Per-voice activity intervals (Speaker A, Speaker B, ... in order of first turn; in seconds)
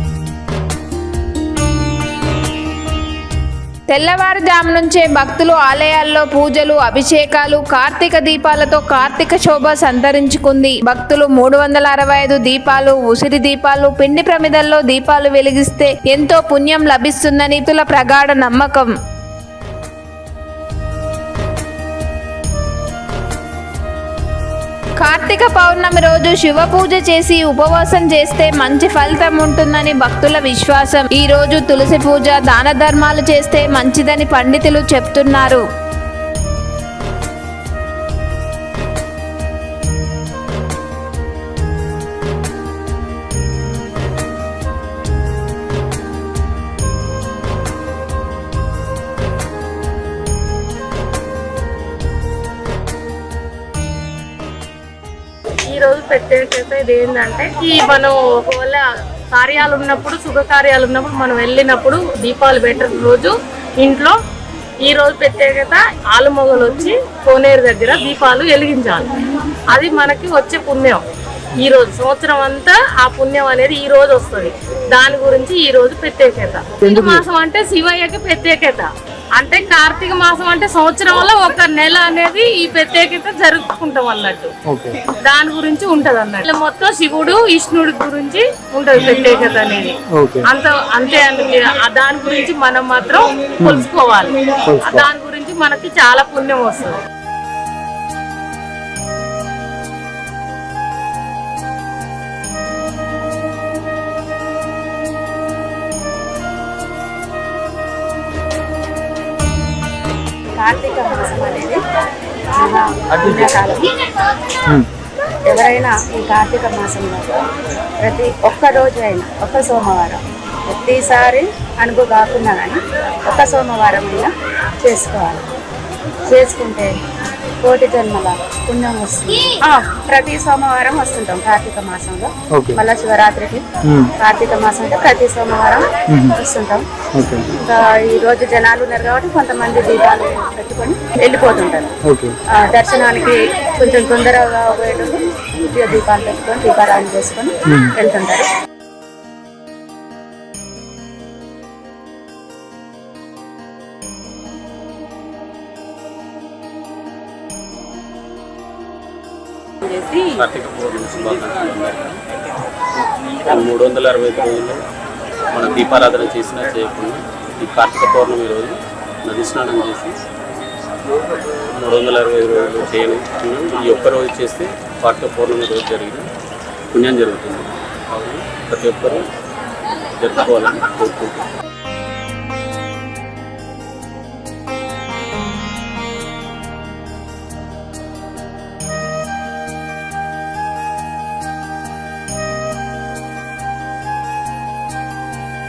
Speaker A: 3.9-18.9, 25.0-35.6
Speaker B: 55.7-64.2, 64.8-69.1, 69.7-71.0, 71.6-84.5, 85.3-97.0
Speaker C: 76.8-77.2, 84.7-85.0, 90.1-90.5, 93.6-93.9, 94.7-95.0, 132.5-132.8, 133.8-134.1, 136.1-136.4, 137.1-137.5, 142.0-142.3, 147.7-147.9
Speaker D: 110.5-111.8, 112.6-113.9, 115.5-117.4, 118.0-124.3, 124.8-125.4, 126.3-127.0, 127.6-133.6, 134.2-136.8, 137.6-141.9, 142.5-148.5
Speaker E: 113.2-113.5, 160.2-162.2, 163.4-164.8, 165.5-170.2, 171.7-176.3, 176.9-179.2, 180.2-181.4